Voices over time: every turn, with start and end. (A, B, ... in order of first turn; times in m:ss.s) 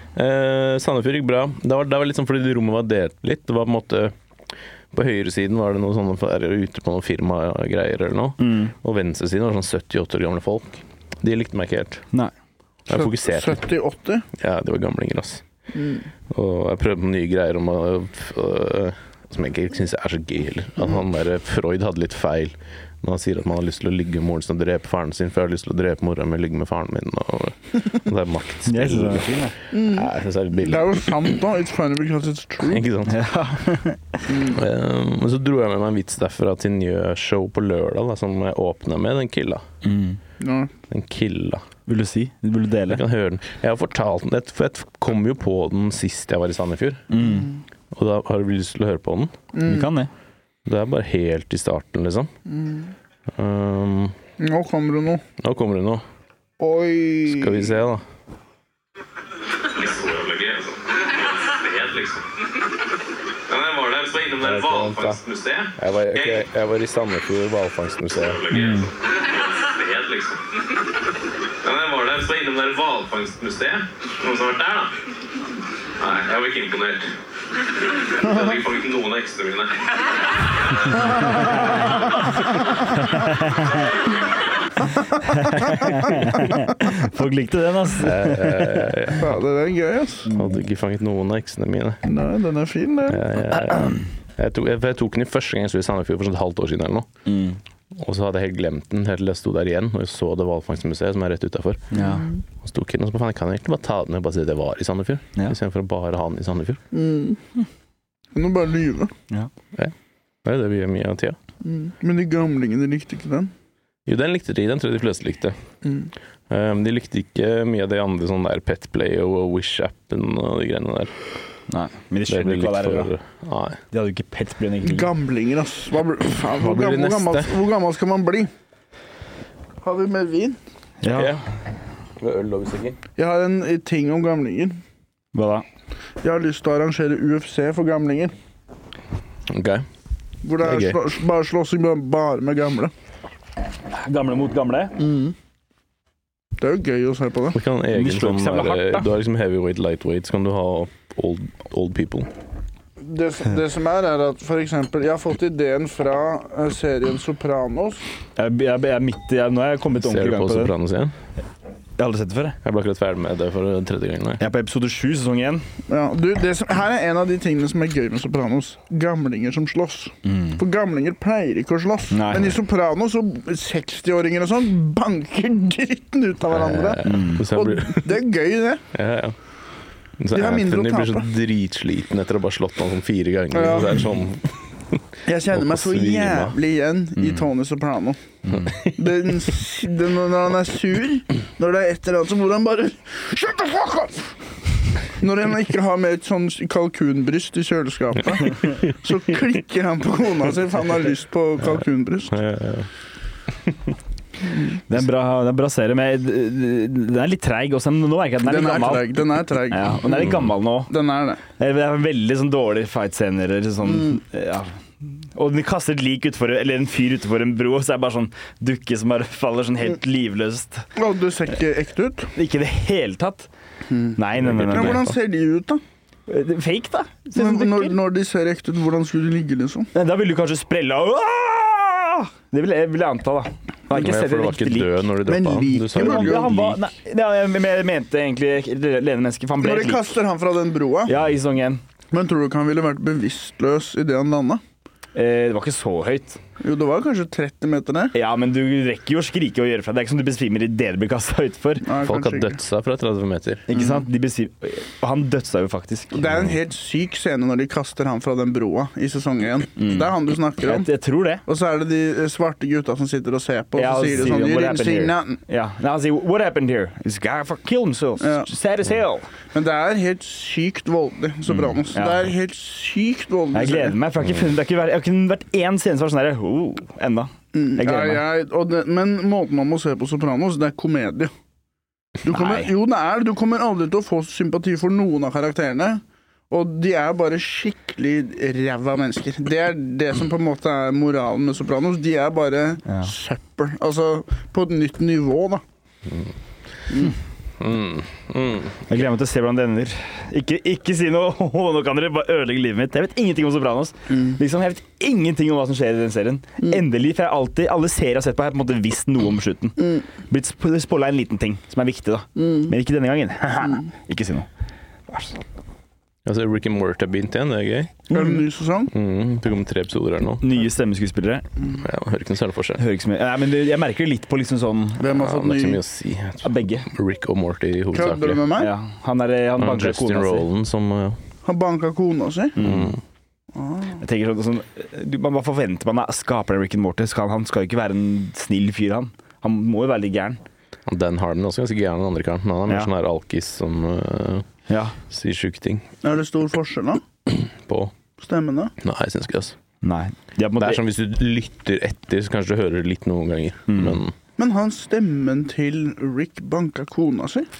0:00.2-0:04.1 A
0:04.9-0:12.0 A
0:08.4-0:08.7 B
0:12.9-0:13.6 A
0:12.9-0:14.2 C
0:14.4-0:15.4 A
0:15.7-0:16.0 C
0:16.3-0:31.3 A
0:28.7-0:29.6 B
0:29.7-0:32.9 C
0:32.6-0:33.2 A
0:33.0-0:34.4 B
0:34.3-0:34.6 C
0:34.5-0:39.6 A
0:39.8-0:40.2 B
0:40.4-0:40.7 C
0:40.9-0:41.6 A
0:41.9-0:43.0 B
0:42.9-0:47.2 A
0:47.1-0:47.5 B
0:47.9-0:49.3 A
0:49.5-0:49.9 C
0:49.6-0:50.1 B
0:50.6-0:52.3 A
0:52.5-0:52.9 C
0:53.3-0:54.2 A
0:54.4-0:55.2 C
0:55.4-0:56.0 A
0:56.6-0:57.7 C
0:57.3-0:58.0 A
0:59.7-1:02.4 D
1:03.5-1:06.4 D
1:04.4-1:05.2 A
1:05.8-1:08.4 A
1:08.1-1:10.8 D
1:08.5-1:08.9 B
1:11.6-1:15.0 D
1:16.0-1:17.2 D
1:17.8-1:20.1 D
1:23.0-1:23.9 B
1:25.2-1:29.0 B
1:25.6-1:25.9 C
1:28.0-1:29.3 A
1:29.2-1:30.3 C
1:30.3-1:32.0 A
1:32.0-1:33.2 C
1:33.1-1:37.1 A
1:33.7-1:34.0 B
1:37.2-1:37.6 B
1:37.9-1:41.9 A
1:41.9-1:42.3 B
1:42.0-1:42.3 C
1:42.6-1:46.8 A
1:46.9-1:47.4 C
1:48.3-1:49.1 C
1:50.4-1:51.4 A
1:51.6-1:53.5 C
1:54.0-1:55.5 A
1:56.5-2:01.1 A
2:01.7-2:03.1 B
2:02.3-2:03.8 A
2:03.9-2:05.1 B
2:04.8-2:08.5 C
2:06.6-2:07.6 A
2:09.8-2:10.6 C
2:11.0-2:11.4 B
2:11.1-2:11.4 A
2:12.2-2:13.0 A
2:13.2-2:14.8 C
2:15.3-2:15.6 B
2:16.2-2:18.3 C
2:19.5-2:19.8 A
2:20.4-2:22.9 C
2:20.6-2:21.0 A
2:23.9-2:25.0 B
2:25.0-2:25.3 C
2:26.6-2:27.6 C
2:27.5-2:32.3 A
2:27.9-2:29.1 B
2:33.0-2:38.0 C
2:38.4-2:40.7 B
2:40.0-2:41.1 A
2:42.0-2:42.6 B
2:42.6-2:44.4 A
2:44.4-2:45.6 B
2:45.9-2:58.8 C
2:50.2-2:50.6 B
2:52.1-2:52.6 B
2:56.5-2:58.2 A
2:57.0-2:57.4 B
2:58.9-2:59.4 A
3:00.2-3:04.5 A
3:00.3-3:01.3 C
3:03.5-3:04.0 C
3:05.2-3:08.2 C
3:05.5-3:06.6 A
3:08.4-3:08.7 B
3:08.5-3:08.9 A
3:08.9-3:14.4 C
3:15.0-3:22.4 C
3:22.3-3:22.9 A
3:24.9-3:30.9 B
3:28.4-3:31.4 C
3:31.6-3:40.9 B
3:41.0-3:42.3 C
3:42.3-3:43.5 B
3:43.9-3:44.2 C
3:44.1-3:45.1 B
3:44.4-3:45.0 A
3:44.7-3:45.8 C
3:46.3-3:48.0 B
3:47.3-3:49.9 C
3:49.9-3:55.0 B
3:54.0-3:56.6 A
3:55.2-3:56.8 C
3:55.9-4:00.2 B
3:59.6-4:01.1 C
4:01.1-4:01.8 B
4:02.1-4:04.6 C
4:05.1-4:06.4 B
4:06.6-4:08.1 C
4:08.1-4:11.9 B
4:11.8-4:12.6 C
4:12.0-4:13.6 A
4:13.7-4:16.4 B
4:13.7-4:14.0 C
4:16.1-4:20.9 C
4:19.8-4:20.1 B
4:20.6-4:21.4 B
4:21.4-4:25.4 C
4:23.8-4:29.3 B
4:28.2-4:28.5 C
4:29.5-4:34.0 C
4:31.8-4:32.2 B
4:33.5-4:38.2 B
4:37.5-4:41.3 C
4:42.2-4:55.6 C
4:42.3-4:42.7 B
4:52.9-4:53.1 B
4:57.6-4:58.8 A
4:58.9-5:14.5 B
5:12.4-5:12.7 C
5:15.1-5:15.4 B
5:16.2-5:18.2 A
5:18.1-5:18.9 C
5:18.9-5:20.5 A
5:20.4-5:21.4 B
5:21.8-5:22.8 A
5:22.8-5:25.1 B
5:25.0-5:25.8 C
5:25.1-5:28.4 A
5:26.4-5:26.9 B
5:27.9-5:28.7 C
5:28.6-5:30.5 B
5:29.6-5:31.2 A
5:31.4-5:32.6 C
5:32.6-5:33.0 B
5:32.6-5:33.0 A
5:33.5-5:34.0 C
5:34.0-5:40.4 B
5:40.9-5:44.5 A
5:44.7-5:45.0 B
5:45.1-5:45.9 A
5:46.0-5:47.0 C
5:47.3-5:47.9 A
5:48.2-5:48.7 C
5:48.8-5:49.5 A
5:49.8-5:50.8 B
5:50.6-5:54.1 A
5:53.7-5:54.0 B
5:54.4-5:57.5 C